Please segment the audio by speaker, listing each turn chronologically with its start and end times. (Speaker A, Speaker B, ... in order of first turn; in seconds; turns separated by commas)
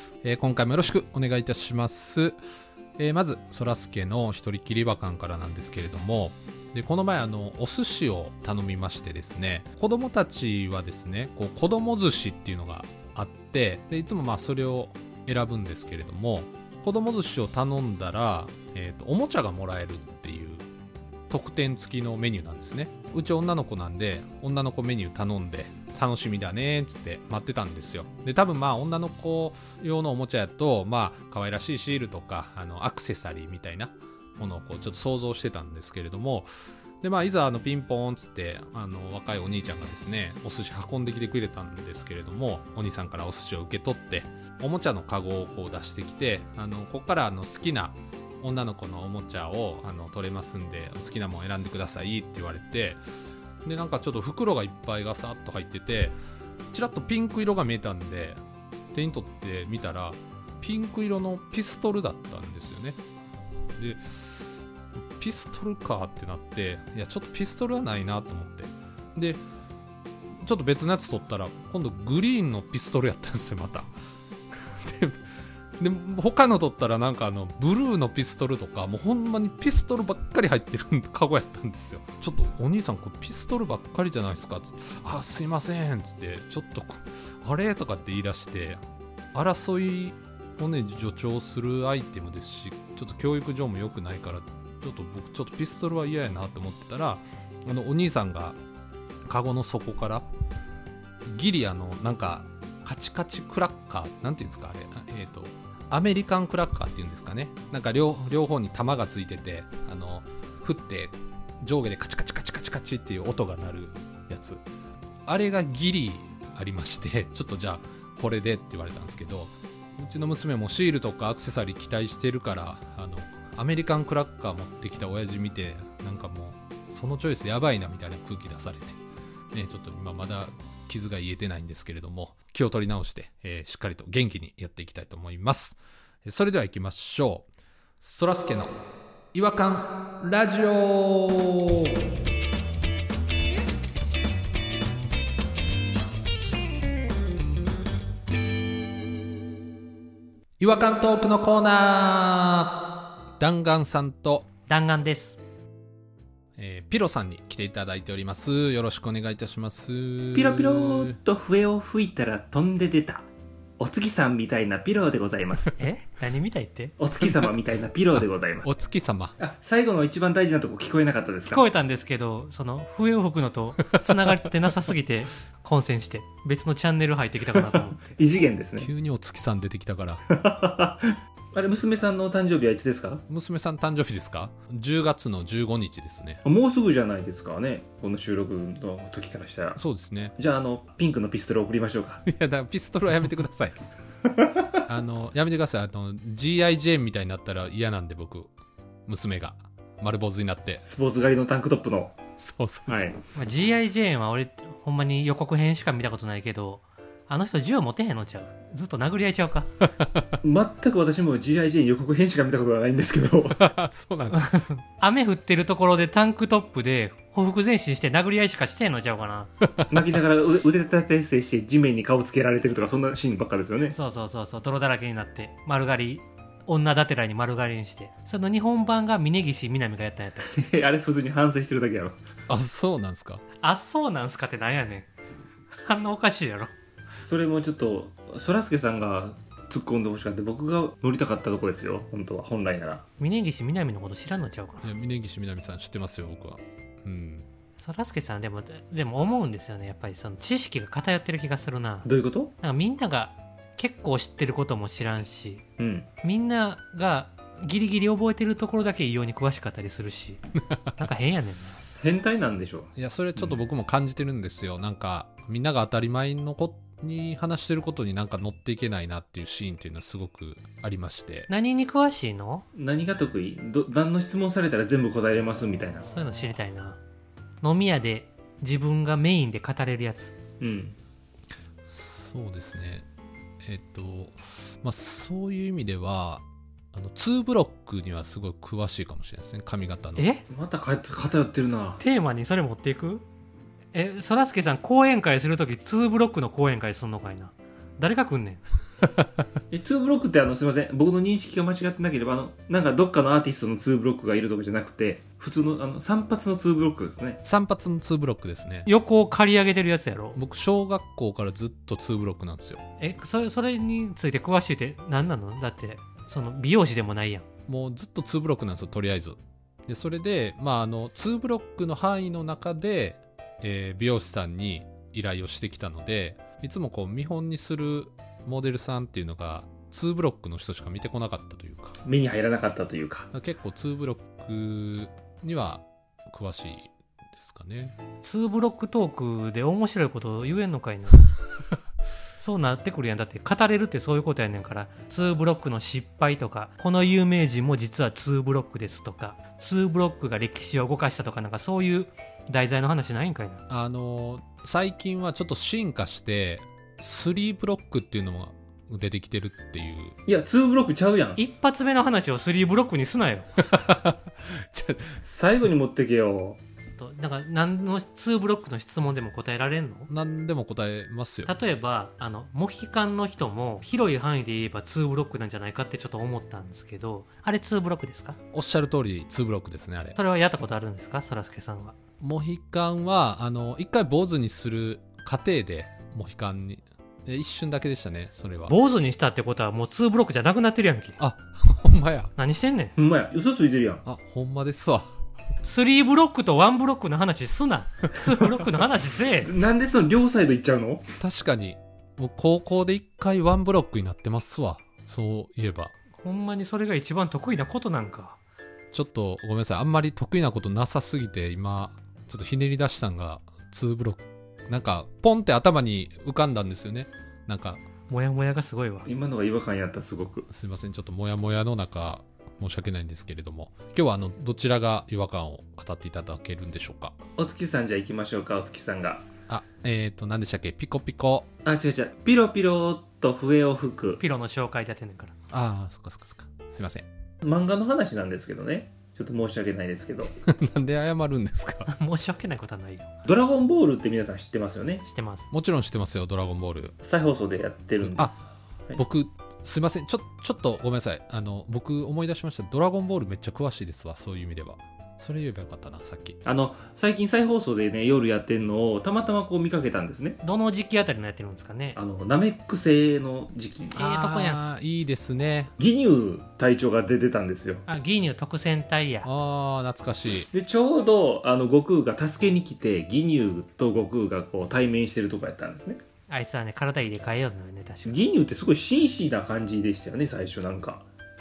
Speaker A: 0.2-2.4, Speaker A: 3.0-20.7, Speaker A: 21.3-36.5, Speaker A: 37.0-53.0, Speaker A: 53.6-56.2, Speaker A: 56.7-58.4, Speaker A: 58.9-63.0, Speaker A: 63.8-69.4, Speaker A: 70.4-73.9, Speaker A: 74.6-75.2, Speaker A: 75.8-88.8, Speaker A: 89.3-98.6, Speaker A: 99.3-100.3, Speaker A: 101.3-114.6, Speaker A: 115.2-129.0, Speaker A: 129.5-137.5, Speaker A: 138.0-138.8, Speaker A: 139.3-142.1, Speaker A: 150.6-152.8, Speaker A: 153.4-154.5, Speaker B: 154.7-155.4, Speaker A: 156.6-161.2, Speaker C: 160.3-163.3, Speaker C: 163.8-165.8, Speaker B: 165.8-166.9, Speaker C: 167.0-168.7, Speaker A: 168.2-169.4, Speaker C: 169.4-171.7, Speaker B: 171.4-178.1, Speaker A: 173.9-174.2, Speaker C: 177.7-178.9, Speaker A: 178.8-180.2, Speaker C: 180.3-183.2, Speaker A: 183.3-186.4, Speaker C: 186.4-189.8, Speaker A: 189.8-190.3, Speaker C: 190.4-192.2, Speaker A: 192.3-193.8, Speaker A: 194.9-198.5, Speaker A: 199.1-200.8, Speaker C: 200.9-202.2, Speaker A: 202.4-203.1, Speaker C: 202.9-203.2, Speaker B: 203.3-209.7, Speaker A: 210.0-210.3, Speaker C: 210.4-213.7, Speaker A: 213.6-214.6, Speaker B: 214.3-219.5, Speaker C: 219.9-223.9, Speaker B: 223.9-230.5, Speaker C: 230.5-232.2, Speaker A: 232.5-233.4, Speaker B: 233.6-235.1, Speaker B: 235.8-236.7, Speaker C: 237.3-243.0, Speaker B: 243.2-244.9, Speaker A: 244.8-247.5, Speaker B: 247.8-252.1, Speaker C: 252.1-252.5, Speaker B: 252.6-255.6, Speaker C: 255.8-256.1, Speaker B: 256.2-260.4, Speaker B: 260.9-261.8, Speaker C: 262.0-263.6, Speaker A: 263.0-271.5, Speaker B: 271.5-272.6, Speaker C: 272.8-276.1, Speaker B: 276.1-277.0, Speaker B: 277.6-280.4, Speaker C: 280.6-281.0, Speaker A: 281.9-283.1, Speaker A: 283.6-290.3, Speaker B: 290.2-290.4, Speaker C: 290.5-292.0, Speaker B: 292.0-293.2, Speaker B: 293.9-298.6, Speaker C: 299.7-307.4, Speaker A: 307.4-308.9, Speaker B: 308.9-310.4, Speaker A: 310.4-312.8, Speaker B: 313.0-317.4, Speaker A: 317.7-332.0, Speaker C: 332.0-333.3, Speaker A: 333.3-337.9, Speaker B: 338.2-341.3, Speaker B: 342.4-353.6, Speaker A: 353.7-360.2, Speaker C: 360.3-361.4, Speaker B: 361.4-363.5, Speaker A: 363.6-365.2, Speaker C: 365.2-366.6, Speaker B: 367.0-370.1, Speaker A: 370.1-371.5, Speaker B: 371.5-378.4, Speaker A: 378.5-380.2, Speaker B: 380.1-381.9, Speaker A: 382.2-388.8, Speaker B: 388.7-391.2, Speaker A: 391.2-392.3, Speaker B: 392.4-392.9, Speaker C: 393.0-394.0, Speaker A: 394.1-395.1, Speaker B: 395.6-399.5, Speaker C: 399.4-401.1, Speaker A: 401.2-405.9, Speaker B: 406.2-408.4, Speaker A: 408.9-417.8, Speaker B: 418.1-419.1, Speaker C: 419.1-420.5, Speaker A: 420.5-427.1, Speaker C: 427.4-429.3, Speaker A: 429.5-431.5, Speaker C: 431.6-434.2, Speaker B: 434.2-435.3, Speaker A: 435.5-437.1, Speaker C: 437.4-440.3, Speaker A: 440.4-441.9, Speaker B: 441.9-443.1, Speaker C: 443.3-445.0, Speaker B: 445.0-445.5, Speaker A: 445.5-446.9, Speaker C: 447.0-448.4, Speaker A: 448.0-448.3, Speaker A: 449.0-456.4, Speaker C: 456.4-460.4, Speaker B: 460.4-462.0, Speaker C: 462.0-464.0, Speaker B: 463.9-464.6, Speaker A: 464.0-465.7, Speaker C: 465.8-467.8, Speaker B: 467.9-469.3, Speaker A: 469.2-470.5, Speaker C: 470.5-476.0, Speaker B: 476.3-478.2, Speaker C: 478.1-481.1